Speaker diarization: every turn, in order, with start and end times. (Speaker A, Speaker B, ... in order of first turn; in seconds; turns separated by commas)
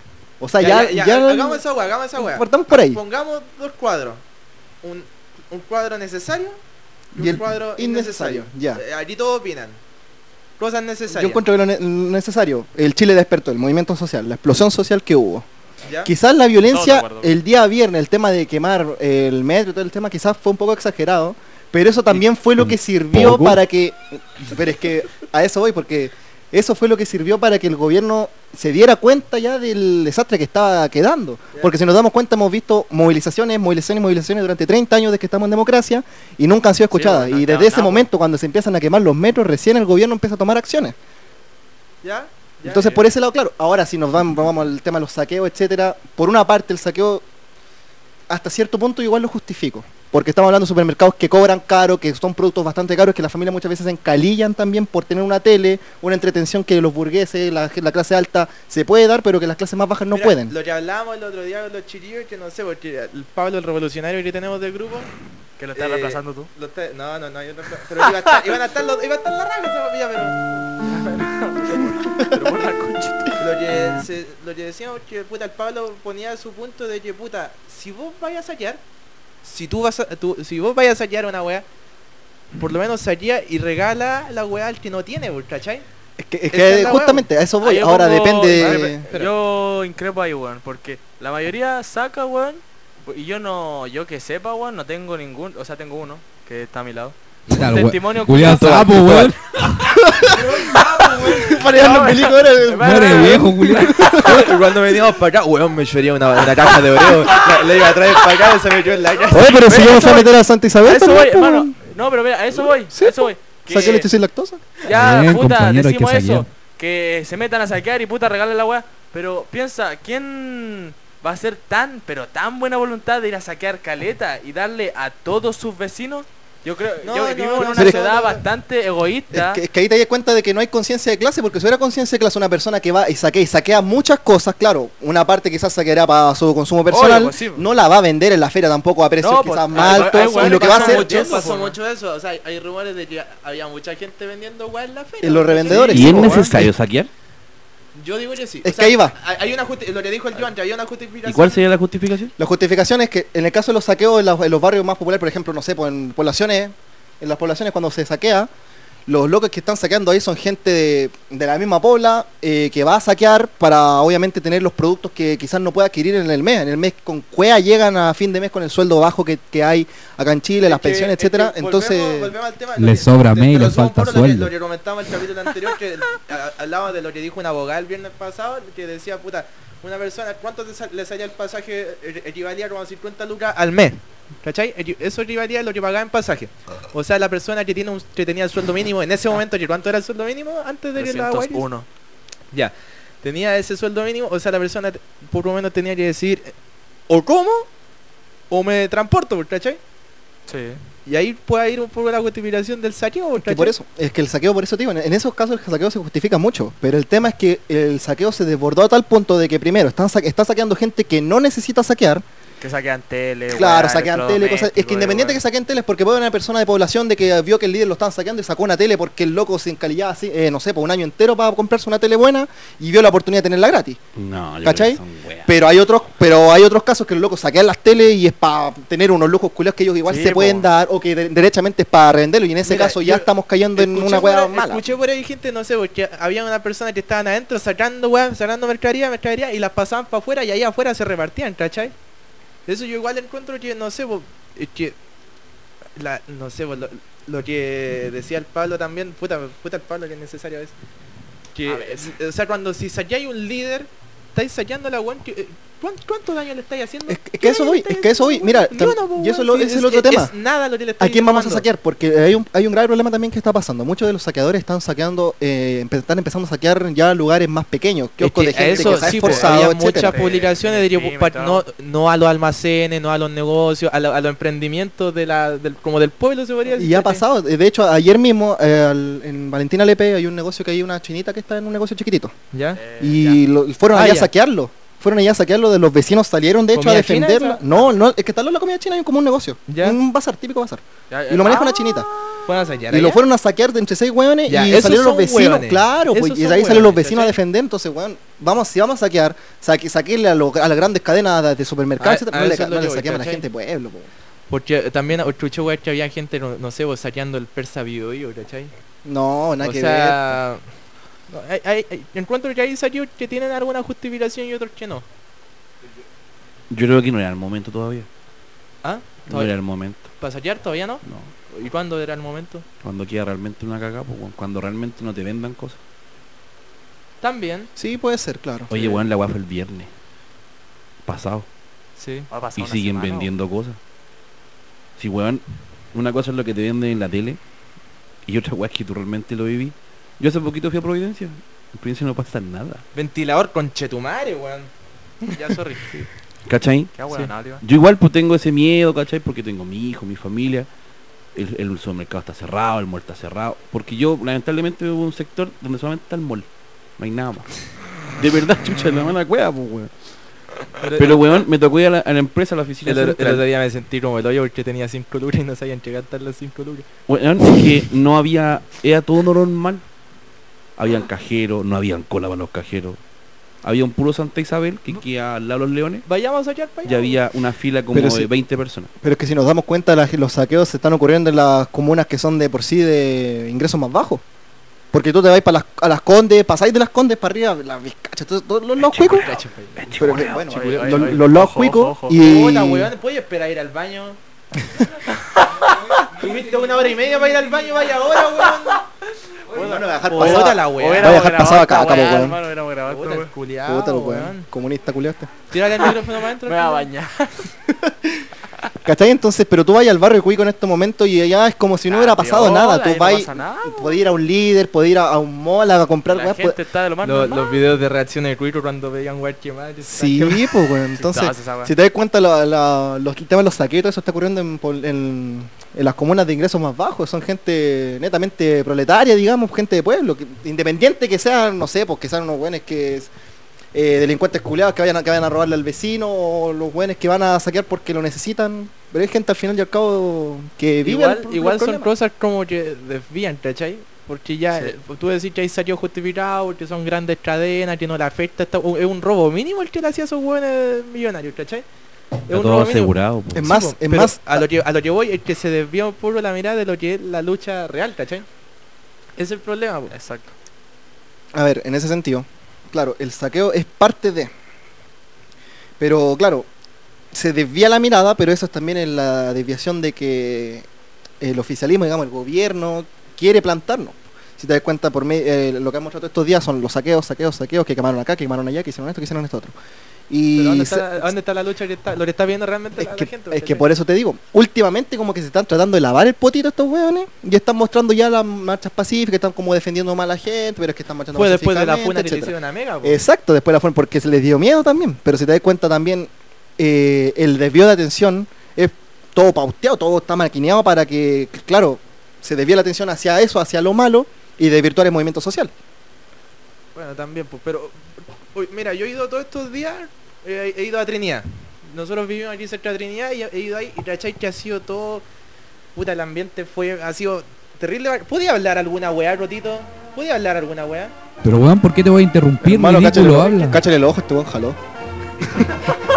Speaker A: 0.4-1.6, Speaker B: 0.6-4.2, Speaker A: 2.1-3.0, Speaker B: 4.8-6.6, Speaker A: 7.2-8.8, Speaker B: 7.2-9.8, Speaker B: 10.6-11.4, Speaker A: 11.1-15.5, Speaker B: 15.8-16.1, Speaker A: 16.0-41.0, Speaker C: 16.7-17.4, Speaker D: 22.6-23.6, Speaker C: 36.9-38.1, Speaker B: 42.0-43.0, Speaker A: 42.6-47.2, Speaker A: 48.3-60.5, Speaker B: 60.1-65.1, Speaker C: 65.6-66.5, Speaker B: 65.7-70.4, Speaker C: 70.9-73.3, Speaker B: 73.4-78.8, Speaker B: 79.4-81.7, Speaker B: 82.6-85.8, Speaker A: 86.2-89.0, Speaker B: 86.5-87.3, Speaker C: 87.6-99.3, Speaker B: 88.5-89.3, Speaker E: 97.5-99.7, Speaker A: 100.0-104.4, Speaker C: 101.2-104.5, Speaker E: 102.8-104.2, Speaker B: 104.1-109.5, Speaker C: 107.2-107.5, Speaker C: 109.1-114.0, Speaker A: 109.3-111.8, Speaker A: 112.9-114.7, Speaker B: 113.7-114.0, Speaker C: 114.8-129.6, Speaker E: 114.9-116.5, Speaker B: 127.0-128.4, Speaker A: 127.6-128.1, Speaker A: 129.3-141.5, Speaker C: 136.9-137.7, Speaker C: 139.2-141.8, Speaker B: 139.7-146.5, Speaker A: 145.2-146.7, Speaker D: 145.7-147.1, Speaker C: 146.0-146.5, Speaker B: 147.9-151.6, Speaker A: 148.6-149.2, Speaker D: 151.2-152.3, Speaker A: 152.4-158.5, Speaker A: 159.1-172.3, Speaker B: 170.6-191.7, Speaker E: 172.8-174.5, Speaker C: 190.9-191.9, Speaker B: 192.5-196.5, Speaker B: 197.1-197.7, Speaker B: 198.5-199.8, Speaker C: 200.5-200.8, Speaker B: 201.1-203.7, Speaker A: 203.4-212.2, Speaker C: 212.6-215.4, Speaker A: 213.5-224.0, Speaker D: 224.2-225.5, Speaker A: 224.6-234.8, Speaker C: 230.0-230.7, Speaker B: 232.6-241.9, Speaker B: 242.7-244.9, Speaker B: 245.9-250.7, Speaker B: 251.5-261.6, Speaker C: 251.7-252.1, Speaker A: 257.1-260.3, Speaker A: 261.0-270.2, Speaker B: 268.2-277.2, Speaker C: 268.6-271.6, Speaker A: 276.7-282.3, Speaker B: 282.5-282.8, Speaker C: 282.7-283.4, Speaker A: 283.0-292.1, Speaker B: 283.9-284.3, Speaker B: 286.7-287.9, Speaker B: 289.7-290.0, Speaker C: 291.1-292.0, Speaker B: 292.4-293.2, Speaker A: 292.9-304.1, Speaker B: 294.5-297.4, Speaker B: 302.0-303.4, Speaker B: 304.5-308.7, Speaker A: 309.0-310.4, Speaker B: 309.6-310.7, Speaker B: 311.3-315.0, Speaker D: 316.7-318.1, Speaker B: 318.8-322.6, Speaker D: 319.3-320.1, Speaker D: 321.0-321.3, Speaker D: 322.8-325.8, Speaker B: 327.2-327.7, Speaker A: 327.8-328.7, Speaker D: 328.7-329.9, Speaker B: 328.7-329.0, Speaker D: 331.0-331.5, Speaker B: 332.0-332.3, Speaker C: 332.3-333.3, Speaker D: 332.6-333.8, Speaker D: 335.0-337.4, Speaker D: 338.2-342.8, Speaker B: 342.9-344.7, Speaker B: 345.2-346.0, Speaker D: 346.4-346.9, Speaker C: 346.9-347.6, Speaker D: 347.6-350.7, Speaker D: 351.3-360.0, Speaker B: 360.8-361.2, Speaker D: 361.0-363.4, Speaker B: 362.8-366.9, Speaker D: 367.1-369.8, Speaker D: 370.8-373.0, Speaker D: 373.6-376.1, Speaker B: 376.0-377.2, Speaker D: 376.8-378.9, Speaker A: 377.9-378.3, Speaker A: 379.0-384.2, Speaker A: 384.9-389.3, Speaker D: 388.8-390.5, Speaker B: 389.1-391.1, Speaker A: 390.0-392.9, Speaker C: 390.4-392.2, Speaker B: 392.1-394.2, Speaker B: 396.1-398.8, Speaker A: 399.5-402.4, Speaker B: 399.5-401.2, Speaker C: 400.1-403.3, Speaker B: 402.9-404.5, Speaker A: 403.6-405.3, Speaker B: 405.5-406.9, Speaker C: 406.4-407.5, Speaker A: 407.7-408.2, Speaker A: 408.8-416.6, Speaker C: 411.9-414.0, Speaker C: 416.1-417.6, Speaker B: 417.0-420.5, Speaker A: 419.8-433.1, Speaker C: 421.0-421.7, Speaker A: 433.7-441.9, Speaker B: 440.8-451.6, Speaker C: 444.5-444.8, Speaker B: 452.3-458.3, Speaker D: 452.3-453.5, Speaker A: 453.3-454.4, Speaker B: 459.2-459.9, Speaker C: 459.9-460.3, Speaker A: 461.3-464.3, Speaker A: 465.8-466.5, Speaker A: 467.1-470.6, Speaker A: 471.2-479.5, Speaker A: 480.1-481.1, Speaker B: 480.3-483.7, Speaker A: 482.8-505.5, Speaker B: 491.1-493.0, Speaker B: 506.7-515.0, Speaker B: 515.7-520.9, Speaker E: 521.2-523.6, Speaker A: 522.4-524.6, Speaker A: 525.2-525.7